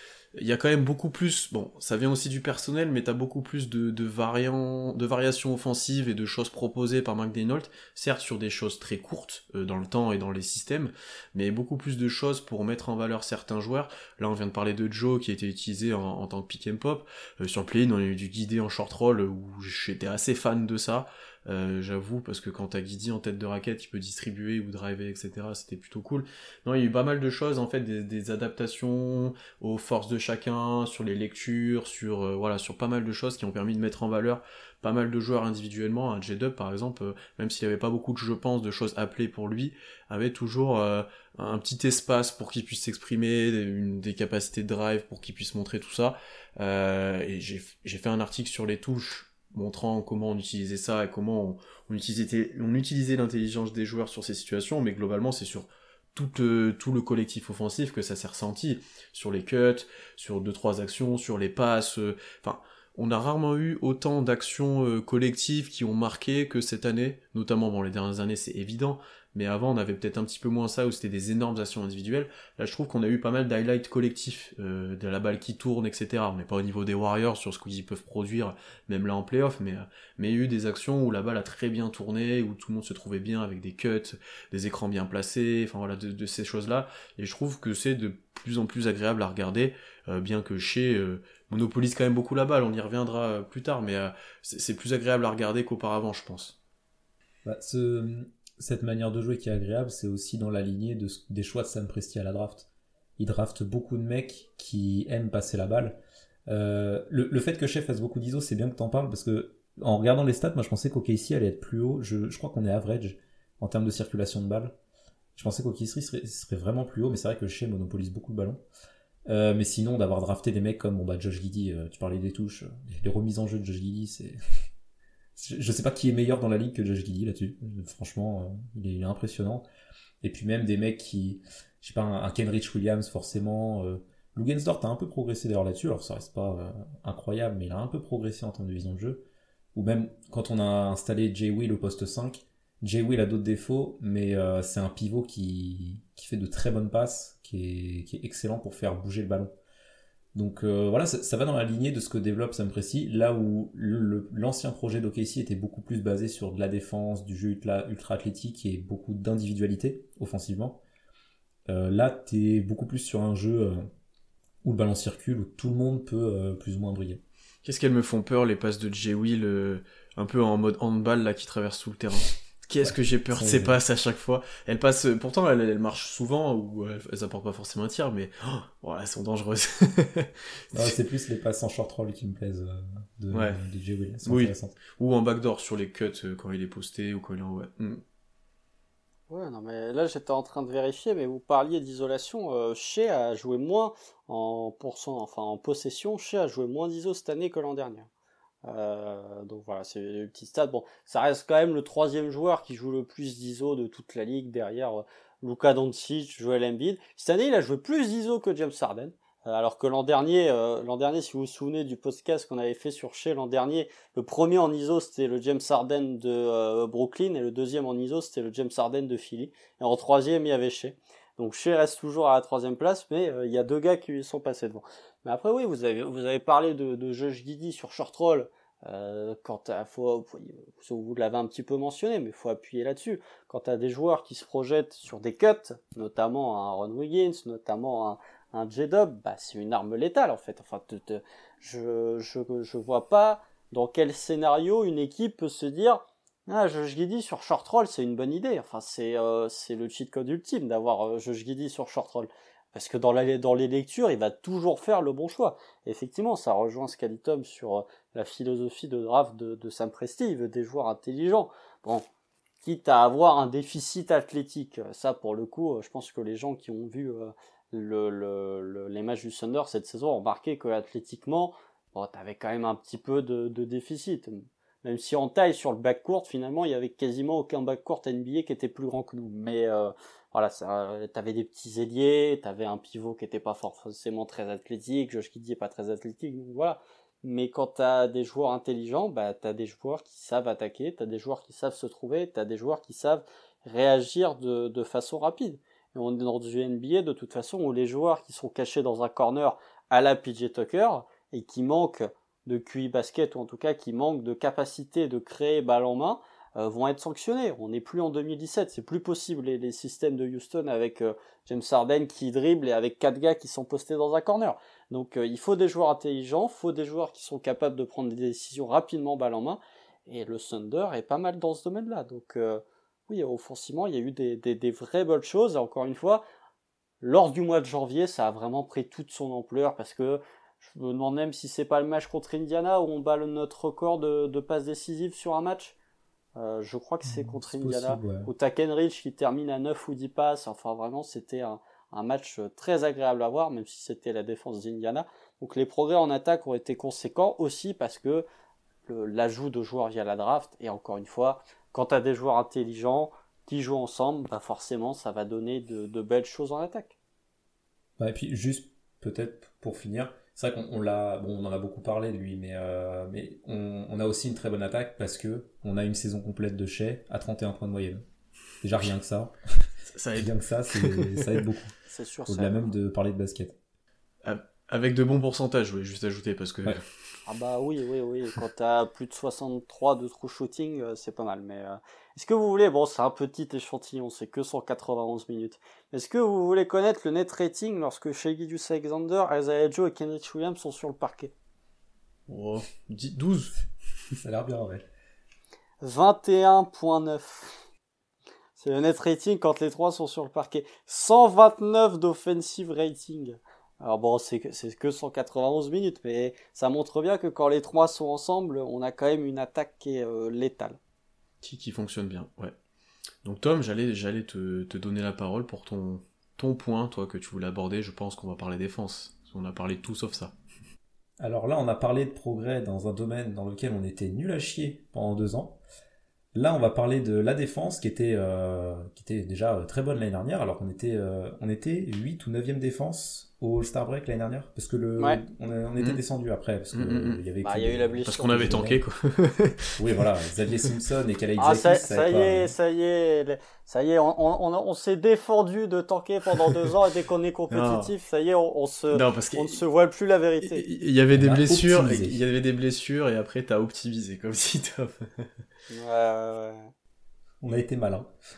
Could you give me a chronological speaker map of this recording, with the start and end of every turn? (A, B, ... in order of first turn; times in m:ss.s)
0:00.4-1:36.6 A
1:37.4-1:54.8 B
1:55.4-1:58.6 B
1:59.3-2:04.4 B
2:05.4-2:09.6 B
2:10.2-2:29.5 B
2:30.4-2:40.8 B
2:41.7-2:43.9 B
2:44.6-2:47.2 B
2:47.6-3:00.9 A
2:52.8-2:53.8 B
3:00.7-3:04.8 B
3:03.3-3:03.6 A
3:04.3-3:08.0 A
3:09.3-3:18.1 C
3:18.6-4:22.0 C
4:22.6-5:26.2 C
5:27.0-5:35.8 C
5:36.4-5:48.2 C
5:37.1-5:38.3 B
5:48.9-5:57.0 C
5:58.0-6:08.1 B
6:08.6-6:11.8 B
6:09.9-6:11.4 A
6:11.9-6:12.7 C
6:12.3-6:13.6 B
6:14.2-6:16.9 A
6:17.3-6:31.3 C
6:32.3-6:33.5 A
6:34.2-6:34.9 B
6:35.8-6:37.6 C
6:38.6-6:50.8 C
6:51.4-6:52.6 A
6:53.2-7:00.4 A
7:01.2-7:05.6 B
7:06.3-7:18.8 B
7:16.7-7:17.2 A
7:17.4-7:18.7 C
7:18.1-7:20.1 A
7:19.8-7:22.5 B
7:21.4-7:30.6 C
7:27.5-7:27.9 A
7:28.9-7:29.6 A
7:30.4-7:35.3 A
7:31.2-7:32.2 B
7:35.7-7:36.7 C
7:37.4-7:38.1 B